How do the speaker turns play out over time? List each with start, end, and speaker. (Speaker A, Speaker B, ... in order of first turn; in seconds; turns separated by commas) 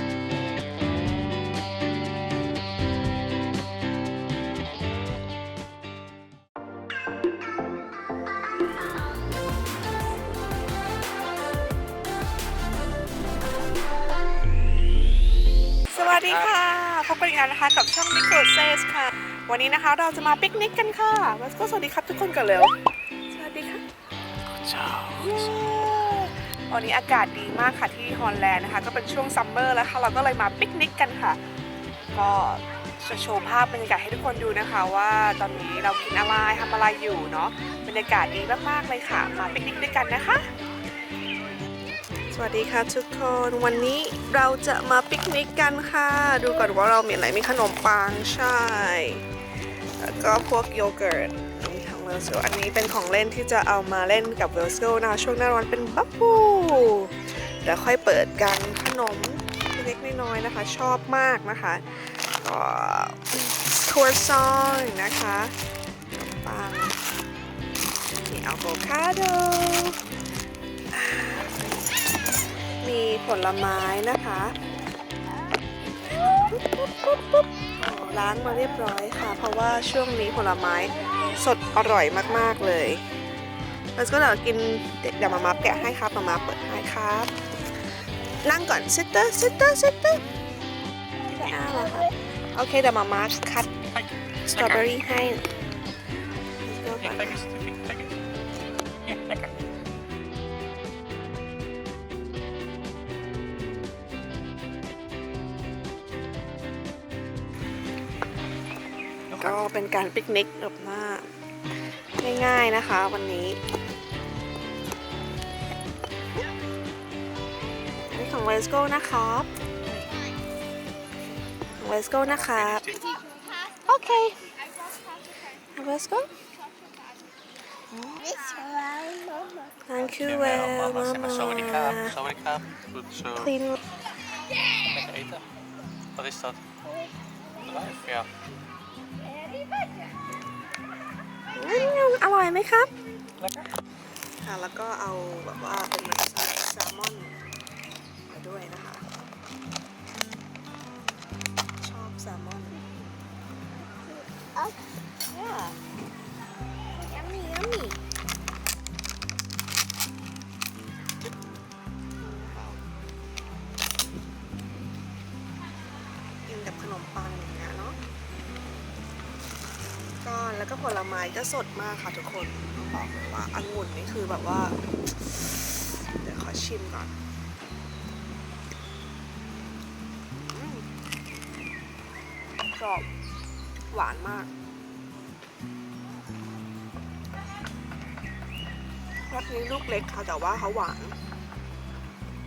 Speaker A: 15.9-22.7, Speaker B: 15.9-16.5, Speaker A: 23.3-23.8, Speaker B: 24.5-26.0, Speaker A: 25.2-31.4, Speaker A: 32.1-40.5, Speaker A: 42.3-49.2, Speaker A: 50.0-65.5, Speaker A: 66.1-67.0, Speaker A: 68.2-70.0, Speaker A: 70.9-71.7, Speaker A: 72.8-74.5, Speaker A: 76.3-83.0, Speaker A: 84.0-87.3, Speaker A: 88.4-90.2, Speaker A: 91.4-93.7, Speaker B: 93.9-95.0, Speaker A: 94.5-95.4, Speaker A: 96.7-97.4, Speaker B: 97.0-98.2, Speaker B: 99.0-99.5, Speaker B: 109.3-109.6, Speaker A: 109.4-111.3, Speaker A: 112.2-113.6, Speaker A: 118.1-119.5, Speaker A: 121.8-122.8, Speaker B: 122.2-123.1, Speaker A: 123.9-124.4, Speaker A: 125.7-126.3, Speaker A: 128.1-129.0, Speaker A: 129.9-132.2, Speaker B: 130.0-133.5, Speaker A: 133.4-133.8, Speaker B: 134.8-135.4, Speaker B: 136.2-136.6, Speaker B: 137.6-138.3, Speaker A: 141.6-142.9, Speaker B: 143.4-143.7, Speaker A: 144.4-147.4, Speaker A: 148.3-149.0, Speaker A: 151.8-152.8, Speaker A: 155.3-155.8, Speaker A: 157.0-158.0, Speaker A: 162.2-162.8, Speaker A: 166.5-168.0, Speaker A: 170.2-174.8, Speaker A: 176.2-177.1, Speaker A: 180.5-180.9, Speaker A: 182.8-183.1, Speaker A: 183.9-184.5, Speaker A: 189.3-191.2